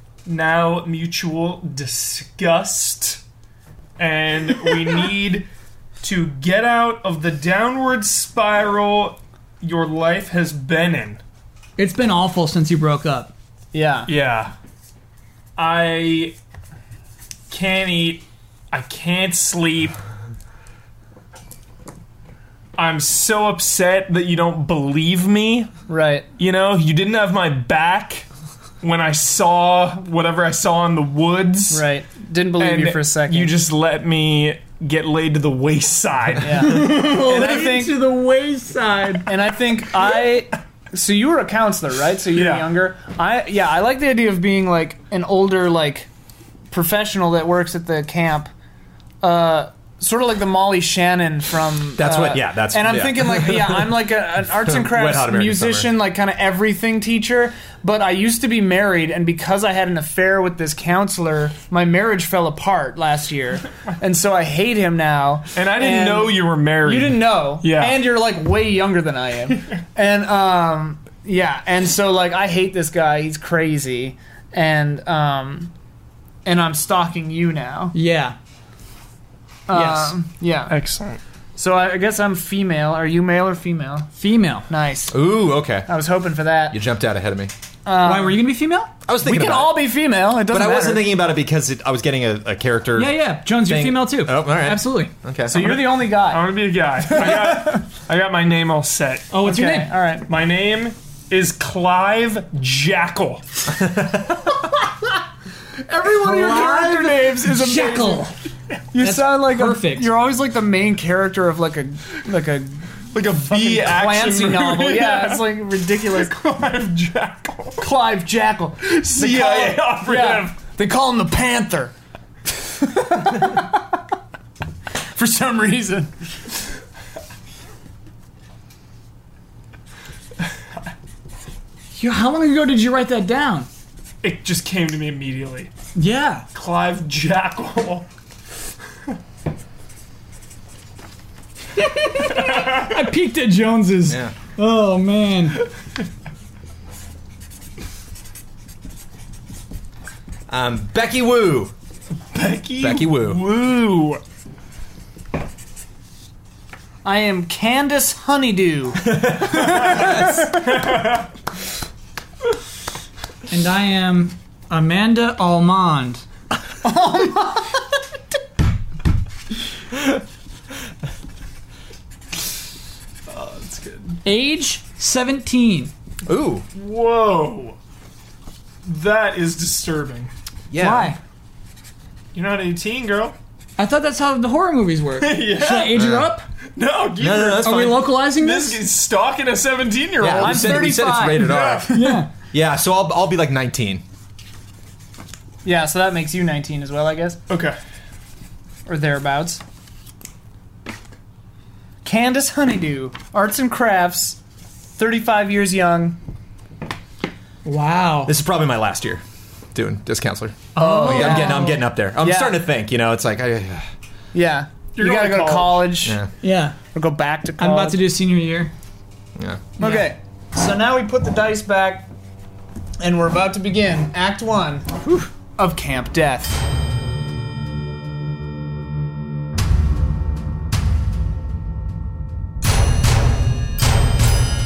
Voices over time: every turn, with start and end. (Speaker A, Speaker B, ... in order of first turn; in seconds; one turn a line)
Speaker A: 0.2-3.2
Speaker A: 4.0-5.5
Speaker A: 6.0-11.2
Speaker B: 11.8-13.3
Speaker C: 13.7-14.1
Speaker A: 14.1-14.5
Speaker A: 15.6-16.4
Speaker A: 17.5-20.0
Speaker A: 22.8-25.7
Speaker C: 25.9-26.3
Speaker A: 26.4-28.3
Speaker A: 28.8-31.9
Speaker C: 31.7-33.5
Speaker A: 32.6-36.9
Speaker C: 36.4-38.0
Speaker B: 36.6-39.3
Speaker C: 39.3-46.1
Speaker A: 42.3-42.7
Speaker C: 46.7-48.5
Speaker C: 49.2-75.7
Speaker D: 52.0-54.1
Speaker D: 54.6-55.9
Speaker A: 65.5-68.0
Speaker C: 76.5-78.0
Speaker B: 77.9-78.4
Speaker C: 79.7-80.8
Speaker B: 79.7-80.2
Speaker A: 80.7-81.2
Speaker C: 81.6-84.1
Speaker B: 84.2-84.7
Speaker C: 84.7-85.2
Speaker D: 85.1-85.9
Speaker C: 85.9-86.8
Speaker D: 86.7-87.5
Speaker C: 87.8-88.4
Speaker B: 88.0-88.9
Speaker D: 89.1-89.9
Speaker C: 89.2-91.1
Speaker D: 90.5-95.8
Speaker B: 93.0-95.1
Speaker C: 95.5-97.8
Speaker A: 95.5-99.3
Speaker B: 99.3-99.9
Speaker C: 99.4-100.3
Speaker A: 100.3-103.4
Speaker D: 103.7-104.6
Speaker B: 105.9-108.3
Speaker C: 106.0-108.3
Speaker A: 106.2-108.0
Speaker C: 108.9-112.8
Speaker B: 109.0-110.1
Speaker A: 113.1-115.5
Speaker C: 113.4-116.3
Speaker A: 116.1-117.8
Speaker C: 117.8-121.9
Speaker A: 118.8-120.5
Speaker C: 122.8-123.8
Speaker C: 125.1-126.1
Speaker B: 132.0-133.7
Speaker A: 134.2-135.7
Speaker B: 135.9-136.5
Speaker A: 136.5-138.1
Speaker B: 141.8-145.6
Speaker A: 142.3-142.9
Speaker D: 144.1-144.3
Speaker D: 150.5-151.7
Speaker A: 152.3-154.2
Speaker D: 152.8-153.4
Speaker C: 157.0-160.3
Speaker D: 159.1-160.3
Speaker A: 160.7-161.0
Speaker B: 163.5-166.2
Speaker C: 166.8-167.8
Speaker A: 173.3-174.2
Speaker B: 174.2-175.9
Speaker D: 176.3-176.7
Speaker A: 176.7-177.8
Speaker A: 178.8-180.3
Speaker D: 180.7-181.2
Speaker B: 180.8-181.2
Speaker A: 182.3-183.4
Speaker B: 183.8-186.5
Speaker A: 185.2-186.1
Speaker D: 185.9-186.3
Speaker A: 186.8-191.9
Speaker D: 187.2-188.0
Speaker B: 187.6-188.8
Speaker D: 190.2-194.0
Speaker C: 190.2-192.2
Speaker B: 191.9-192.3
Speaker C: 195.6-197.4
Speaker A: 197.5-197.8
Speaker C: 198.9-199.6
Speaker C: 202.0-204.4
Speaker C: 205.0-206.2
Speaker B: 207.7-208.3
Speaker D: 208.3-209.2
Speaker D: 209.7-213.9
Speaker C: 210.8-212.6
Speaker B: 210.8-211.8
Speaker C: 214.3-216.2
Speaker A: 215.0-215.9
Speaker D: 216.0-216.3
Speaker B: 216.4-216.8
Speaker C: 216.9-218.0
Speaker B: 217.6-218.7
Speaker D: 219.4-219.7
Speaker B: 219.8-220.1
Speaker C: 219.8-222.1
Speaker C: 223.0-225.0
Speaker C: 225.6-226.6